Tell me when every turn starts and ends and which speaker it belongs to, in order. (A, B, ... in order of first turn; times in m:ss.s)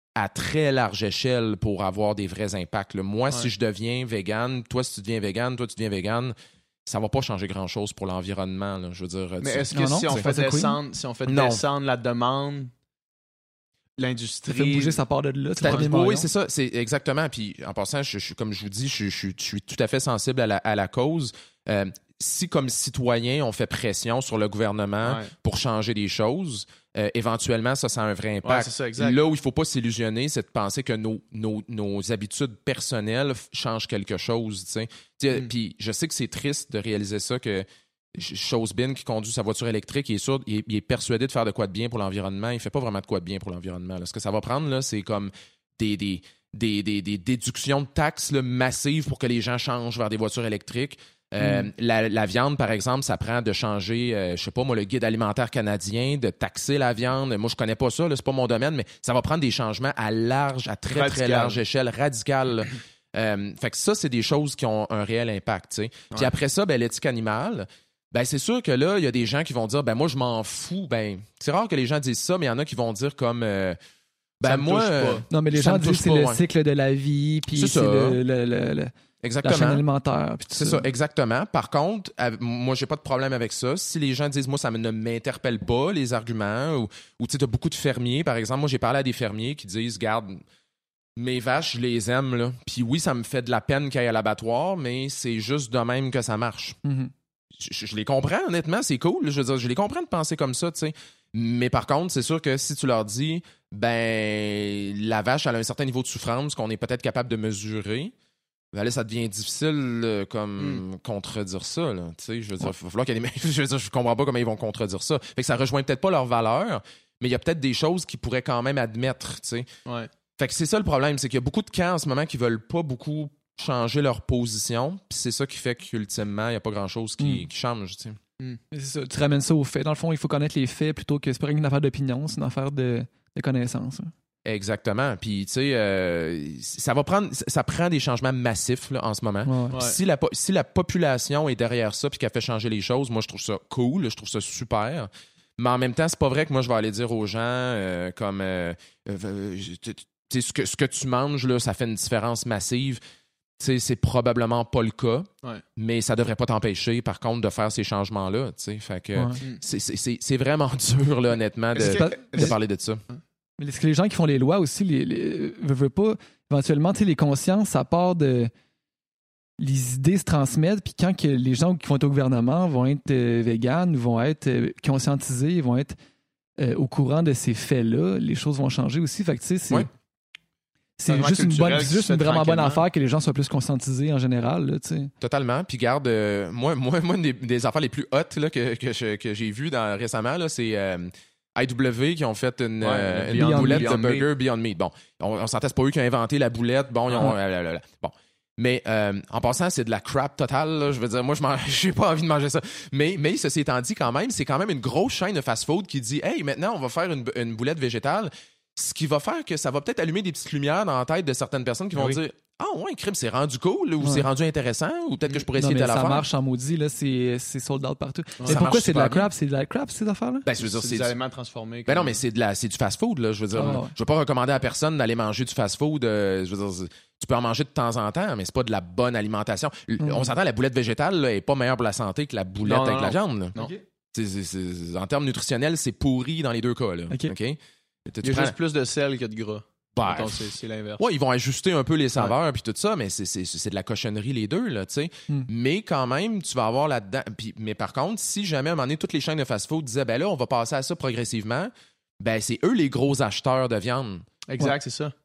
0:00.2-0:06.3 A
0:06.9-0:10.2 A
0:09.4-0:12.7 B
0:09.7-0:10.8 C
0:11.3-0:11.6 A
0:14.0-0:15.0 B
0:14.5-0:16.3 C
0:15.6-1:13.8 A
0:25.0-0:25.3 B
0:28.4-0:29.2 B
0:51.4-0:51.7 C
1:00.9-1:01.6 B
1:14.4-1:16.4 A
1:14.4-1:15.3 B
1:15.3-1:18.9 C
1:17.6-1:18.2 A
1:19.2-1:19.8 A
1:19.4-1:20.9 C
1:20.5-1:30.4 A
1:31.2-1:36.8 A
1:36.8-1:37.1 C
1:37.5-1:48.1 A
1:48.7-1:59.7 A
2:00.4-2:08.2 A
2:07.2-2:07.4 C
2:08.7-2:14.1 C
2:14.4-2:33.0 A
2:19.5-2:19.7 C
2:33.6-2:43.0 A
2:41.7-2:42.6 B
2:41.8-2:42.6 C
2:43.6-2:48.5 C
2:49.6-2:56.0 C
2:56.6-2:59.9 C
3:01.0-3:05.1 C
3:01.1-3:02.8 B
3:05.2-3:36.3 A
3:12.8-3:14.3 B
3:13.3-3:13.9 C
3:32.0-3:32.2 B
3:34.0-3:34.3 C
3:35.6-3:40.5 C
3:38.4-3:39.3 A
3:40.4-3:41.1 A
3:40.6-3:42.2 B
3:41.9-3:53.5 A
3:43.6-3:43.9 C
3:50.0-3:50.3 C
3:52.6-3:53.7 B
3:53.6-3:53.8 C
3:54.1-3:58.6 A
3:58.2-4:01.0 B
4:00.0-4:14.3 A
4:14.5-4:15.1 B